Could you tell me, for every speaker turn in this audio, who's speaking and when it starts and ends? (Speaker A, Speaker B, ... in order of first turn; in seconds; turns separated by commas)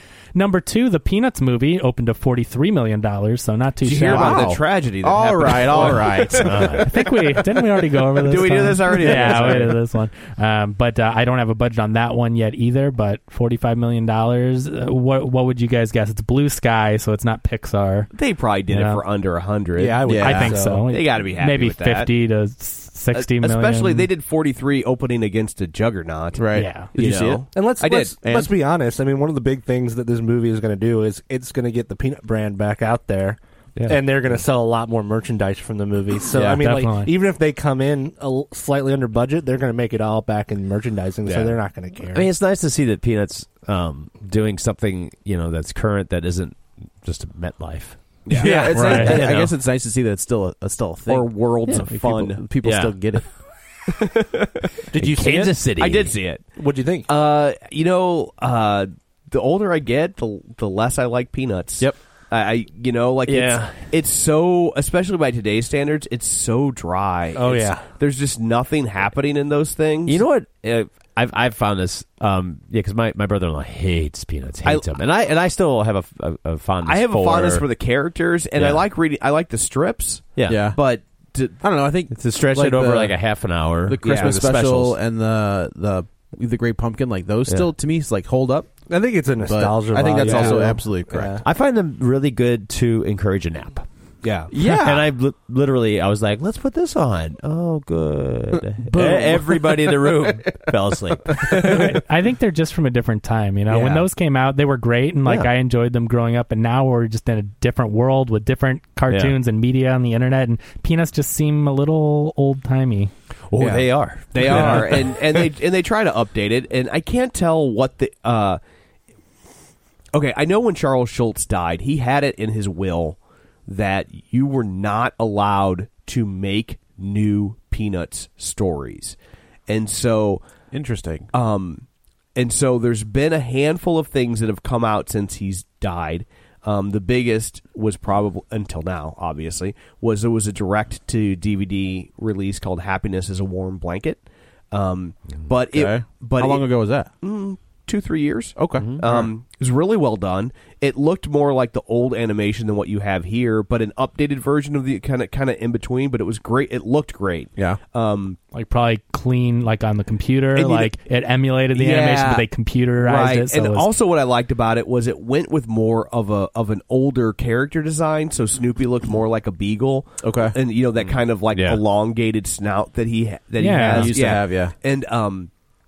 Speaker A: 0.3-4.5, Speaker B: 3.8-6.8, Speaker C: 4.0-6.8, Speaker D: 6.4-6.9, Speaker A: 6.8-18.1, Speaker B: 8.2-9.8, Speaker C: 9.1-9.5, Speaker B: 18.1-20.0, Speaker A: 18.7-19.0, Speaker E: 19.8-20.9, Speaker C: 20.0-20.6, Speaker A: 20.2-24.1, Speaker B: 20.9-22.1, Speaker B: 23.1-28.1, Speaker C: 26.3-27.4, Speaker A: 26.5-26.9, Speaker E: 27.5-42.3, Speaker C: 28.2-28.5, Speaker C: 36.3-36.6, Speaker A: 36.5-37.1, Speaker B: 41.2-41.6, Speaker D: 42.0-49.5, Speaker B: 48.3-48.7, Speaker C: 48.3-53.2, Speaker E: 48.4-49.0, Speaker A: 48.7-49.2, Speaker B: 51.1-52.4, Speaker D: 52.6-53.1, Speaker B: 53.9-54.7, Speaker E: 54.9-55.6, Speaker D: 54.9-56.2, Speaker B: 55.8-56.5, Speaker E: 56.6-57.1, Speaker B: 57.0-70.2, Speaker D: 63.2-63.9, Speaker E: 67.3-67.8, Speaker D: 70.0-77.7, Speaker B: 74.6-74.9, Speaker B: 76.8-81.6, Speaker D: 78.5-78.8, Speaker D: 80.3-80.7, Speaker C: 80.5-80.8, Speaker C: 81.6-83.2, Speaker D: 82.1-85.0, Speaker C: 83.8-88.7, Speaker B: 84.0-84.4, Speaker E: 88.9-91.4, Speaker C: 89.4-91.3, Speaker D: 90.2-90.6, Speaker D: 91.4-93.8, Speaker B: 94.2-94.5, Speaker C: 94.5-95.1, Speaker D: 94.5-101.9, Speaker A: 101.6-113.1, Speaker D: 103.7-104.0, Speaker D: 105.2-105.5, Speaker D: 109.1-109.4, Speaker D: 113.5-115.1, Speaker B: 113.6-118.6, Speaker A: 114.5-114.8, Speaker B: 120.1-129.2, Speaker B: 129.7-130.4, Speaker C: 130.7-131.3, Speaker B: 131.3-131.8, Speaker B: 132.3-146.7, Speaker C: 145.7-147.1, Speaker B: 147.2-158.4, Speaker C: 148.6-149.3, Speaker A: 158.5-163.9, Speaker B: 160.5-160.9, Speaker B: 161.7-162.4, Speaker B: 163.0-175.5, Speaker C: 170.2-170.6, Speaker D: 171.5-171.8, Speaker A: 173.6-174.2, Speaker C: 173.9-174.7